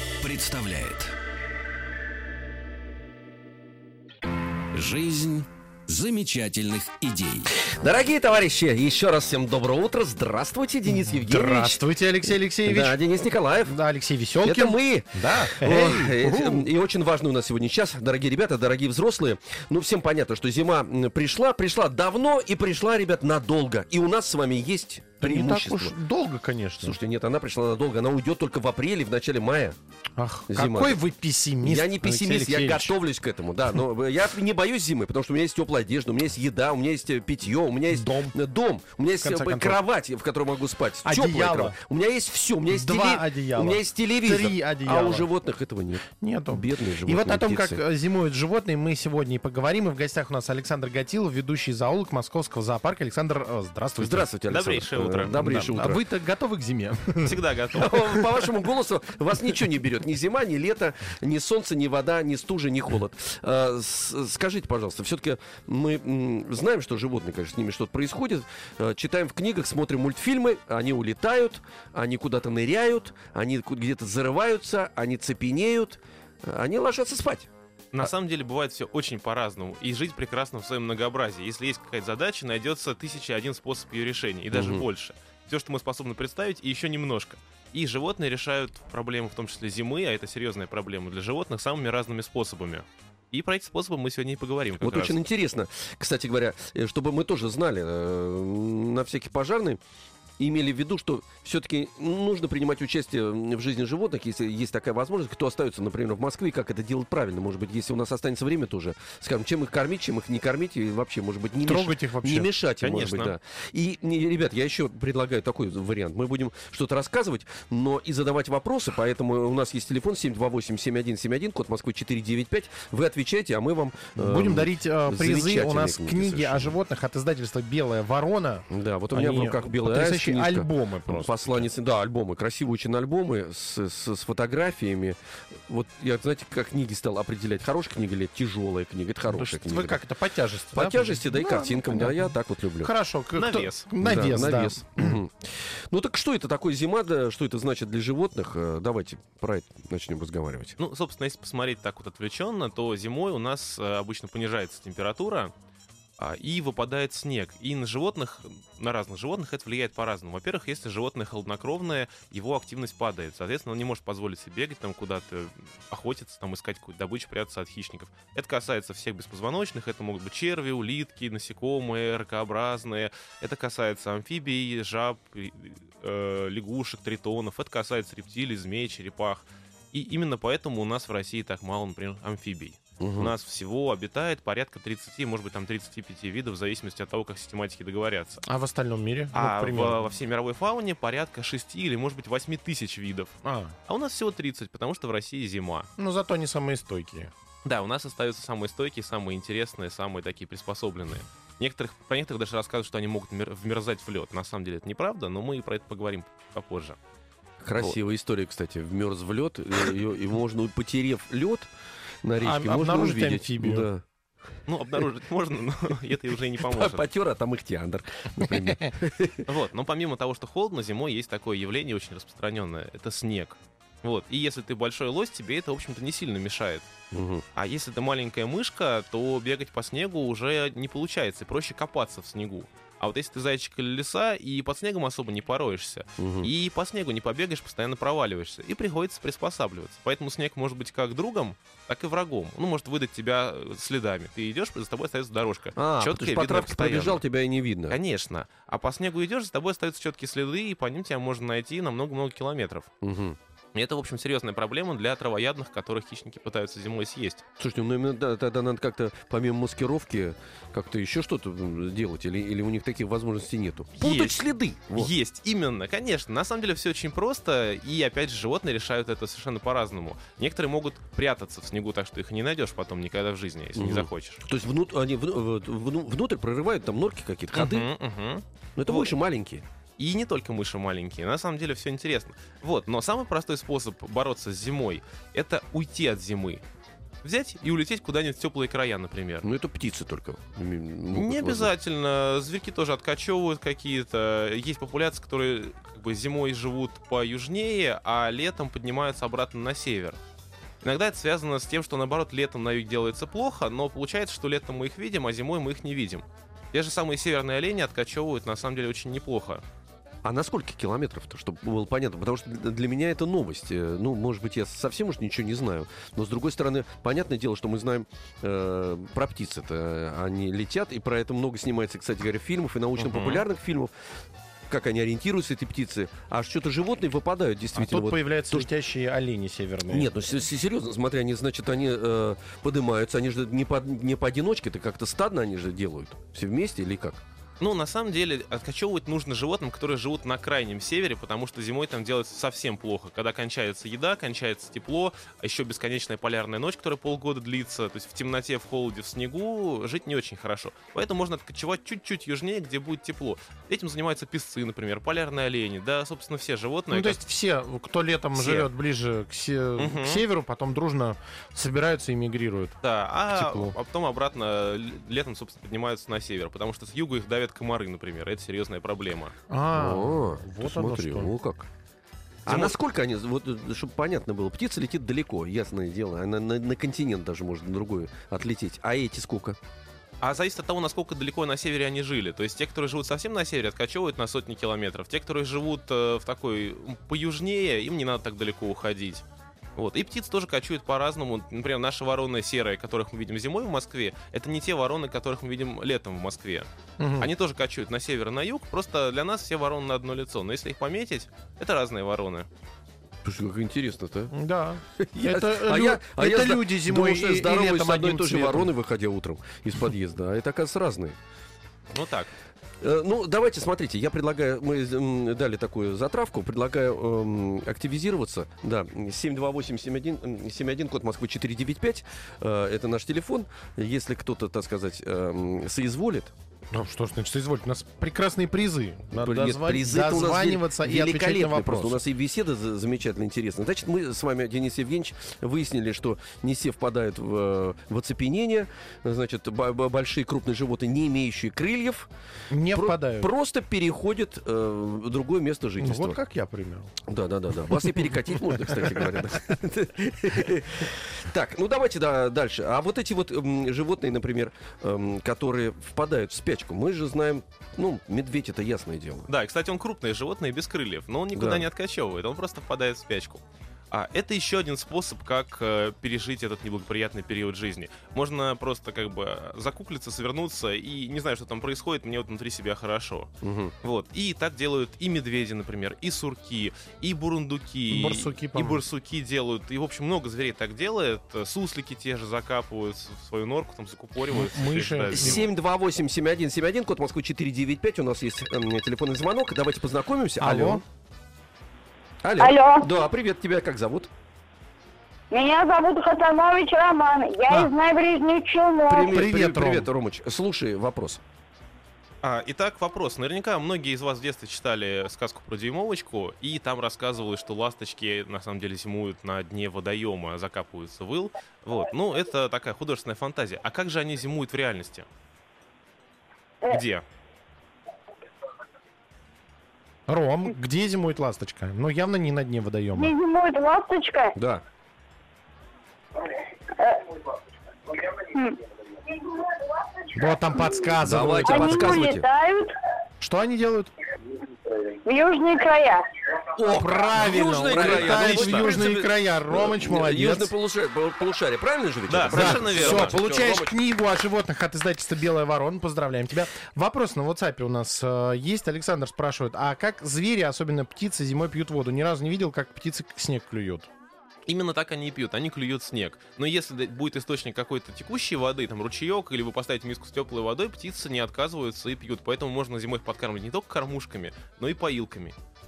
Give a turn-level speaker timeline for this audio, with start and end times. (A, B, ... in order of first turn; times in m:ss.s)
0:00.2-0:01.1 A
0:04.7-0:07.5 A
0:07.7-0:11.8 B
0:11.0-0:13.0 C
0:12.6-0:13.8 B
0:13.7-0:16.7 C
0:14.4-0:26.0 B
0:25.2-0:27.0 C
0:26.8-0:29.8 B
0:30.2-0:32.9 C
0:30.5-0:31.0 B
0:31.6-0:47.8 B
0:37.9-0:38.3 C
0:39.2-0:39.8 C
0:41.0-0:41.8 C
0:42.7-0:45.3 C
0:46.2-0:54.3 C
0:54.0-0:56.0 B
0:54.5-0:55.4 D
0:55.3-0:58.0 C
0:57.2-0:57.9 D
0:57.8-1:17.5 B
1:17.9-1:35.2 D
1:24.5-1:24.9 B
1:34.8-1:39.8 B
1:40.4-2:06.8 B
1:51.6-1:52.5 C
1:52.8-1:53.4 D
2:04.2-2:11.7 C
2:08.7-2:20.0 B
2:19.3-2:25.2 C
2:20.7-2:22.9 B
2:23.4-2:23.9 D
2:24.0-2:30.8 B
2:30.8-2:35.5 D
2:36.2-3:08.4 D
3:03.0-3:03.3 B
3:08.5-3:10.0 C
3:09.3-3:13.3 D
3:13.4-3:13.8 C
3:13.9-3:15.9 D
3:16.0-3:17.3 C
3:17.6-3:27.0 D
3:27.6-3:31.7 B
3:32.2-3:34.0 B
3:32.4-3:33.9 C
3:34.7-3:37.0 D
3:36.6-3:39.5 B
3:38.4-3:38.9 C
3:39.5-3:46.9 D
3:47.1-3:47.4 B
3:47.6-4:07.2 D
3:56.2-3:56.5 B
4:05.8-4:08.0 B
4:07.9-4:12.9 D
4:13.0-4:13.4 B
4:13.7-4:17.4 D
4:17.6-4:25.1 B
4:24.0-4:34.4 D
4:33.8-4:37.9 B
4:37.5-4:39.1 D
4:38.8-4:39.6 B
4:40.0-4:46.6 D
4:47.2-4:49.5 D
4:49.4-4:51.7 B
4:51.1-5:00.2 D
5:00.8-5:09.6 D
5:10.2-5:23.9 B
5:23.0-5:23.4 D
5:24.7-5:28.7 B
5:27.7-5:30.1 C
5:29.9-5:37.2 B
5:37.6-5:57.2 D
5:56.9-6:02.8 C
5:58.4-5:58.7 D
5:59.8-6:00.2 D
6:02.8-6:09.3 D
6:03.3-6:03.8 C
6:09.5-6:11.3 C
6:09.7-6:11.7 B
6:12.5-6:19.6 B
6:12.5-6:12.8 D
6:20.2-6:29.2 D
6:29.8-6:36.7 D
6:37.0-6:37.3 C
6:37.2-6:42.5 D
6:43.2-6:44.3 B
6:44.3-6:48.7 C
6:45.0-6:51.2 B
6:51.9-6:52.3 D
6:52.8-7:06.3 B
7:06.7-7:12.0 C
7:09.1-7:22.1 B
7:22.5-7:23.3 C
7:22.7-7:26.2 B
7:25.8-7:26.9 C
7:27.0-7:39.3 B
7:39.3-7:53.3 D
7:41.3-7:41.7 B
7:53.4-7:53.7 B
7:53.8-8:05.5 D
7:57.9-7:58.8 C
8:04.3-8:05.4 C
8:05.1-8:10.8 B
8:10.4-8:10.8 C
8:12.2-8:14.1 B
8:12.4-8:12.9 E
8:15.3-8:19.2 E
8:18.9-8:21.2 B
8:19.0-8:19.9 C
8:22.2-8:35.1 D
8:36.7-8:37.0 D
8:40.1-8:43.1 C
8:43.0-8:44.4 E
8:44.4-8:44.6 B
8:46.8-8:47.1 E
8:48.2-8:48.6 E
8:50.1-8:52.1 C
8:51.0-8:52.3 B
8:51.4-8:52.7 E
8:53.2-8:53.9 C
8:55.0-8:56.1 E
8:56.6-9:03.8 B
8:56.7-9:00.5 C
8:57.6-8:58.8 D
9:02.1-9:03.2 D
9:02.3-9:13.9 C
9:14.5-9:25.4 D